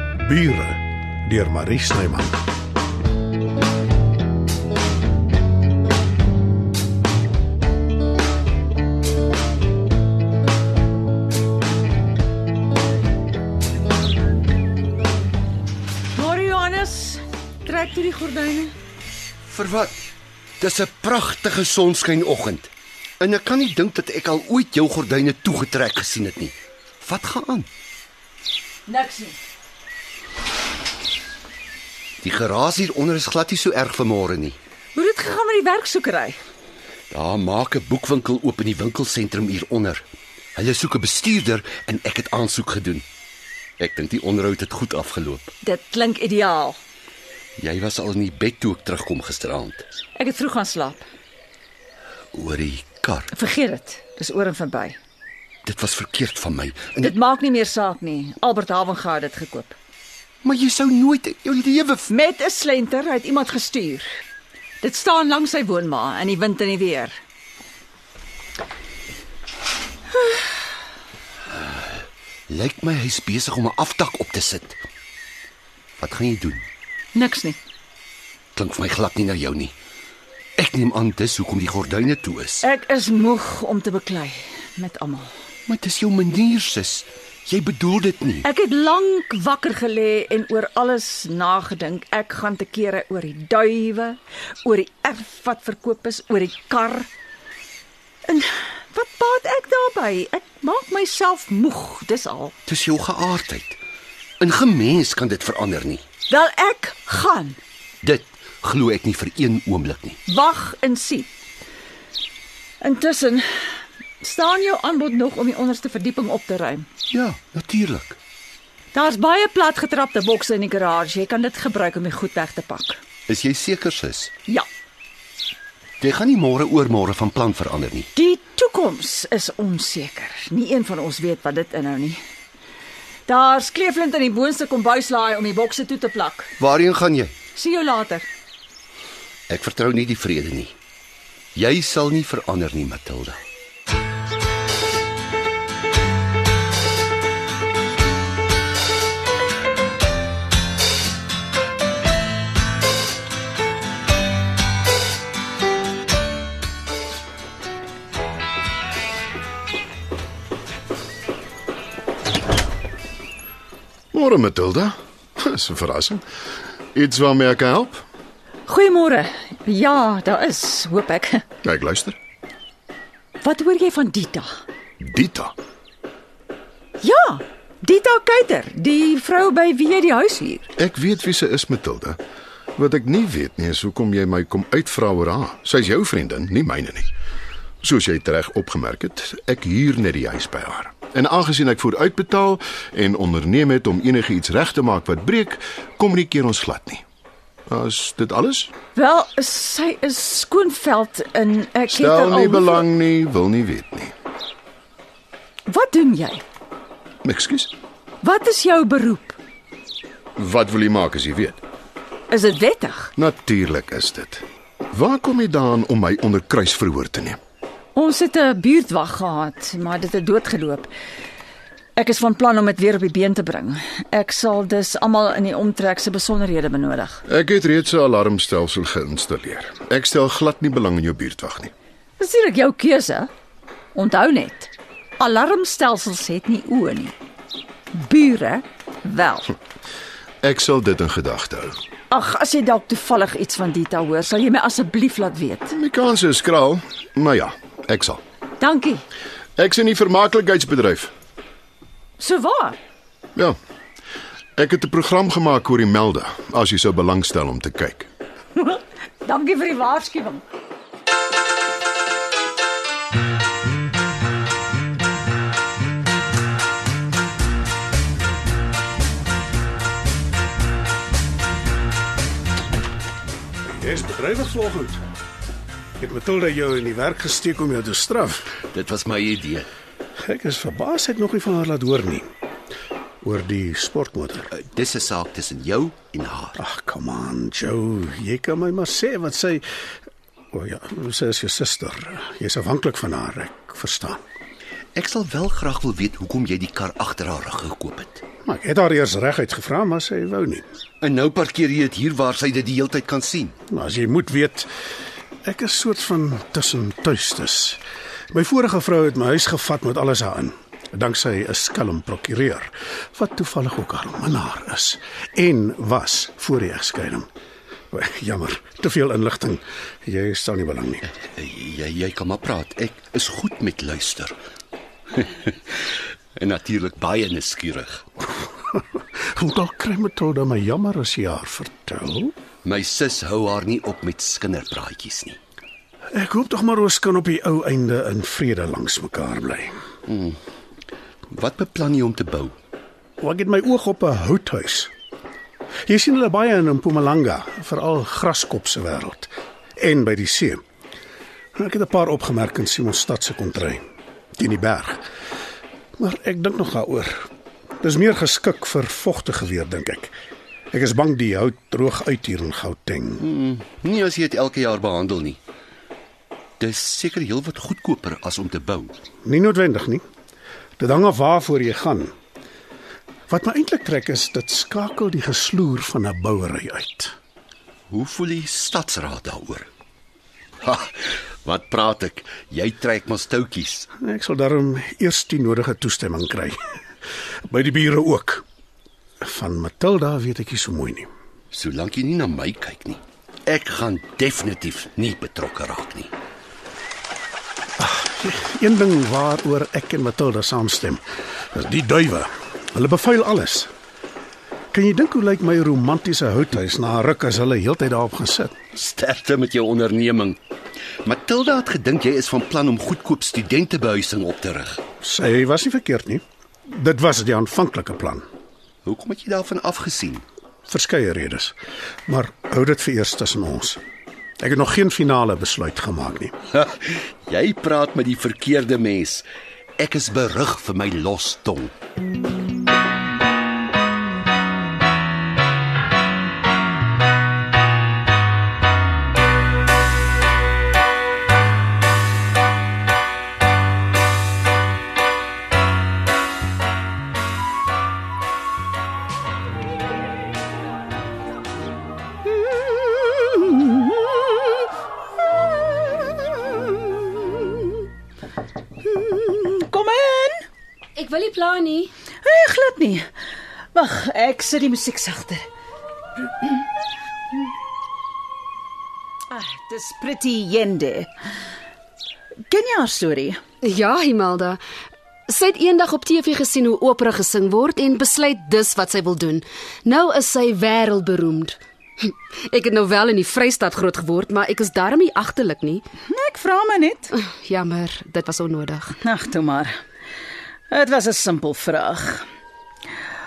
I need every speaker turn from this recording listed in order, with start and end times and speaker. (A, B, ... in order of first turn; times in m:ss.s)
0:00.2-0:02.4 A
0:16.1-0:18.7 B
0:19.5-0:20.0 C
0:20.6-0:27.7 C
0:28.9-0:29.4 B
0:32.2-0:34.6 C
0:34.9-0:36.4 B
0:37.1-0:40.0 C
0:40.6-0:43.0 C
0:43.8-0:45.5 C
0:45.6-0:46.8 B
0:47.6-0:49.9 C
0:50.2-0:51.0 B
0:52.3-0:53.3 C
0:53.3-0:55.0 B
0:55.6-0:57.1 C
0:57.0-0:59.8 B
1:00.4-1:02.1 C
1:02.1-1:04.1 B
1:04.8-1:07.2 B
1:11.6-1:14.8 C
1:16.0-1:16.6 C
1:17.2-1:17.6 B
1:18.6-1:19.8 C
1:20.6-1:22.6 C
1:22.6-1:25.3 B
1:25.7-1:28.5 C
1:28.4-1:37.1 B
1:38.3-1:42.6 B
1:42.7-1:43.8 C
1:44.4-1:46.0 C
1:46.3-1:47.6 B
1:48.0-1:50.2 C
1:50.3-1:51.3 B
1:52.8-1:53.7 B
1:54.2-1:56.9 B
1:57.1-1:58.2 C
1:58.9-2:03.0 B
2:03.3-2:04.3 C
2:06.0-2:08.1 C
2:08.2-2:12.2 B
2:13.3-2:16.5 B
2:16.6-2:17.4 C
2:17.6-2:18.3 B
2:19.5-2:20.8 C
2:21.6-2:23.4 C
2:44.1-2:46.2 D
2:47.0-2:48.0 D
2:48.7-2:51.4 B
2:51.6-2:52.2 D
2:53.4-2:54.5 B
2:55.0-2:55.5 D
2:57.0-3:00.7 B
3:00.8-3:02.2 D
3:02.8-3:07.1 D
3:07.8-3:17.0 D
3:17.7-3:18.7 D
3:19.0-3:22.8 B
3:21.9-3:24.1 D
3:25.7-3:26.4 B
3:27.2-3:27.7 D
3:28.2-3:29.4 B
3:30.4-3:31.6 D
3:32.3-3:33.1 B
3:33.2-3:37.4 D
3:38.0-3:40.9 B
3:42.0-3:47.2 B
3:47.3-3:51.7 D
3:52.2-3:53.3 B
3:53.9-3:57.1 B
3:57.9-3:59.5 B
4:00.4-4:01.8 D
4:02.1-4:05.7 B
4:05.7-4:08.2 D
4:08.6-4:09.0 B
4:09.6-4:11.1 D
4:12.2-4:12.8 B
4:14.6-4:18.1 D
4:18.6-4:20.4 B
4:33.6-4:35.0 A
4:36.0-4:38.5 A
4:38.7-4:39.7 C
4:40.2-4:42.3 A
4:43.2-4:44.5 A
4:44.5-4:46.6 C
4:46.6-4:49.6 A
4:50.5-4:54.2 A
4:55.0-4:58.2 C
4:58.4-5:00.6 A
5:01.0-5:03.6 C
5:03.7-5:04.7 A
5:05.4-5:07.8 A
5:08.3-5:17.3 A
5:17.9-5:21.1 A
5:21.2-5:24.4 C
5:25.1-5:25.8 C
5:26.4-5:28.0 C
5:29.3-5:32.3 A
5:32.6-5:35.4 C
5:36.1-5:39.8 A
5:40.1-5:40.4 C
5:41.3-5:42.6 C
5:43.2-5:44.9 A
5:45.9-5:50.6 A
5:51.6-5:53.8 A
5:54.4-5:55.0 A
5:56.0-5:57.3 A
5:57.8-6:00.2 A
6:00.7-6:03.3 A
6:03.2-6:05.4 C
6:06.6-6:09.0 C
6:09.2-6:10.0 A
6:10.8-6:12.1 A
6:13.3-6:17.2 A
6:17.9-6:19.7 C
6:20.6-6:23.9 C
6:24.0-6:26.6 A
6:27.5-6:28.4 A
6:29.2-6:31.1 A
6:31.5-6:36.1 C
6:37.8-6:43.7 A
6:44.7-6:48.6 A
6:48.7-6:50.4 C
6:51.0-6:54.8 C
6:55.0-6:58.2 A
6:58.8-7:00.2 C
7:00.7-7:01.6 A
7:02.1-7:03.8 A
7:04.4-7:06.3 A
7:06.5-7:09.3 C
7:09.8-7:11.7 C
7:32.4-7:34.4 B
7:35.3-7:37.9 B
7:38.8-7:40.4 B
7:41.0-7:41.9 E
7:42.2-7:43.1 B
7:43.7-7:45.4 B
7:49.3-7:51.1 B
7:52.5-7:53.4 B
7:53.6-7:54.6 E
7:55.3-8:05.8 E
8:06.1-8:07.1 B
8:07.1-8:09.0 E
8:09.0-8:09.7 B
8:10.7-8:12.2 B